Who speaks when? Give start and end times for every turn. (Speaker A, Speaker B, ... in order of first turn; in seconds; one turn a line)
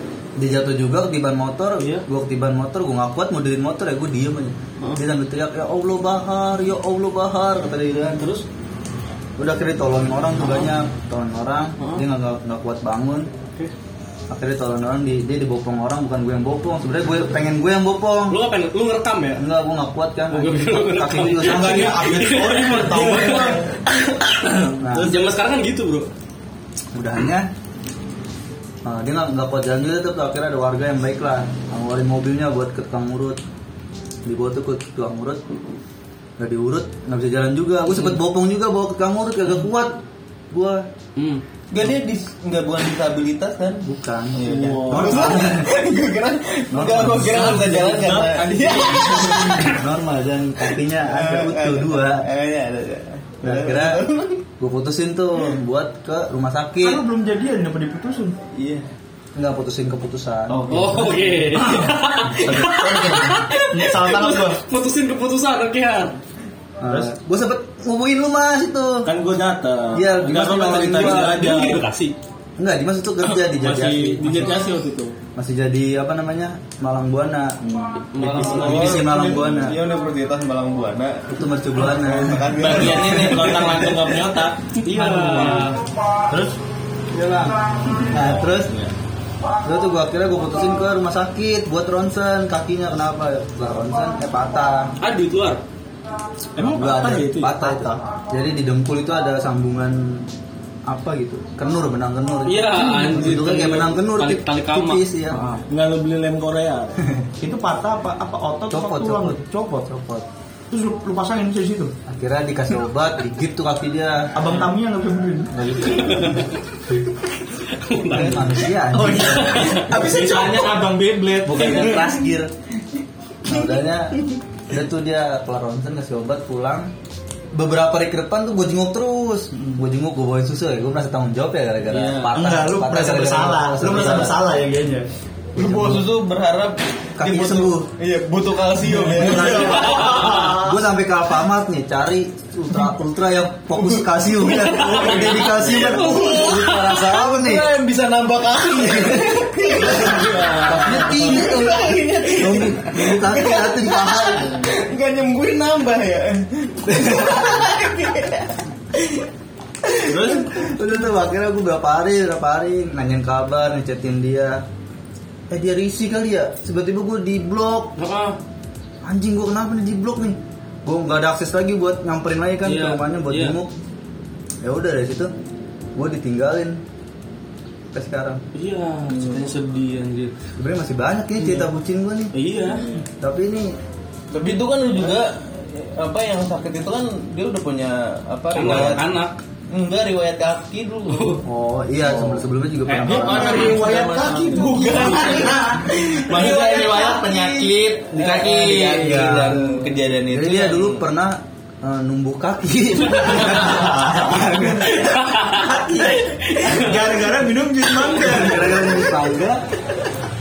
Speaker A: 0.4-8.2
Speaker B: 1.8-2.0
Speaker B: 8.1-8.4
Speaker A: 9.4-13.3
Speaker B: 11.8-12.0
Speaker A: 14.3-18.4
Speaker B: 18.3-19.4
Speaker A: 19.3-22.0
Speaker B: 20.3-26.1
Speaker C: 21.3-23.7
Speaker A: 24.8-25.1
Speaker A: 26.9-27.5
Speaker A: 28.8-33.4
Speaker A: 34.2-35.4
Speaker A: 36.4-40.9
Speaker B: 41.1-41.4
Speaker D: 41.7-49.8
Speaker A: 43.9-45.7
Speaker E: 44.4-45.4
Speaker A: 46.7-47.8
Speaker E: 47.4-49.6
Speaker B: 48.5-49.0
Speaker A: 49.4-52.2
Speaker D: 51.0-54.4
Speaker A: 53.4-54.1
Speaker A: 54.6-57.0
Speaker C: 56.8-58.4
Speaker D: 58.5-58.9
Speaker A: 59.3-61.1
Speaker E: 60.5-61.5
Speaker B: 60.7-66.2
Speaker C: 61.7-64.6
Speaker A: 62.5-63.1
Speaker A: 66.8-69.1
Speaker E: 69.0-71.8
Speaker A: 69.9-71.5
Speaker B: 70.9-72.1
Speaker A: 72.6-74.6
Speaker E: 73.5-75.2
Speaker A: 75.3-79.8
Speaker B: 78.1-79.1
Speaker D: 78.2-83.9
Speaker A: 81.3-82.8
Speaker E: 82.5-85.8
Speaker B: 84.8-85.8
Speaker A: 88.0-88.8
Speaker A: 89.6-95.0
Speaker B: 95.0-95.6
Speaker E: 96.5-97.8
Speaker A: 96.6-100.3
Speaker A: 100.8-105.4
Speaker B: 102.4-105.0
Speaker C: 105.3-105.6
Speaker E: 105.7-107.0
Speaker C: 107.4-111.9
Speaker A: 108.7-109.4
Speaker A: 112.0-114.4
Speaker C: 114.3-115.7
Speaker E: 115.6-116.4
Speaker B: 115.8-116.5
Speaker B: 117.7-119.9
Speaker A: 118.1-119.8
Speaker E: 118.9-122.0
Speaker C: 119.0-121.6
Speaker A: 121.4-122.5
Speaker A: 123.4-126.9
Speaker A: 127.5-134.4
Speaker B: 131.9-132.4
Speaker C: 132.3-135.1
Speaker D: 135.5-140.6
Speaker A: 135.6-136.0
Speaker A: 137.2-137.9
Speaker A: 139.1-147.7
Speaker C: 139.2-140.6
Speaker B: 139.6-140.3
Speaker D: 143.8-144.0
Speaker B: 144.5-147.1
Speaker D: 145.0-159.2
Speaker A: 148.9-149.5
Speaker E: 149.8-151.2
Speaker A: 150.7-154.6
Speaker D: 159.8-160.5
Speaker E: 160.1-160.4
Speaker A: 160.2-164.6
Speaker A: 165.5-167.9
Speaker B: 168.0-168.4
Speaker A: 169.0-173.7
Speaker B: 172.6-173.6
Speaker A: 174.6-175.3
Speaker A: 175.9-176.8
Speaker A: 177.9-178.4
Speaker B: 178.5-180.3
Speaker A: 180.6-182.3
Speaker B: 182.3-182.8
Speaker A: 183.2-183.7
Speaker D: 184.3-189.2
Speaker B: 188.5-189.4
Speaker D: 189.7-191.4
Speaker B: 191.1-191.4
Speaker A: 191.4-193.9
Speaker E: 192.8-198.4
Speaker C: 193.1-198.0
Speaker D: 194.6-201.0
Speaker A: 198.1-199.7
Speaker A: 200.3-205.0
Speaker B: 203.2-203.8
Speaker C: 203.6-204.3
Speaker B: 204.8-207.2
Speaker C: 205.5-209.0
Speaker A: 208.2-209.6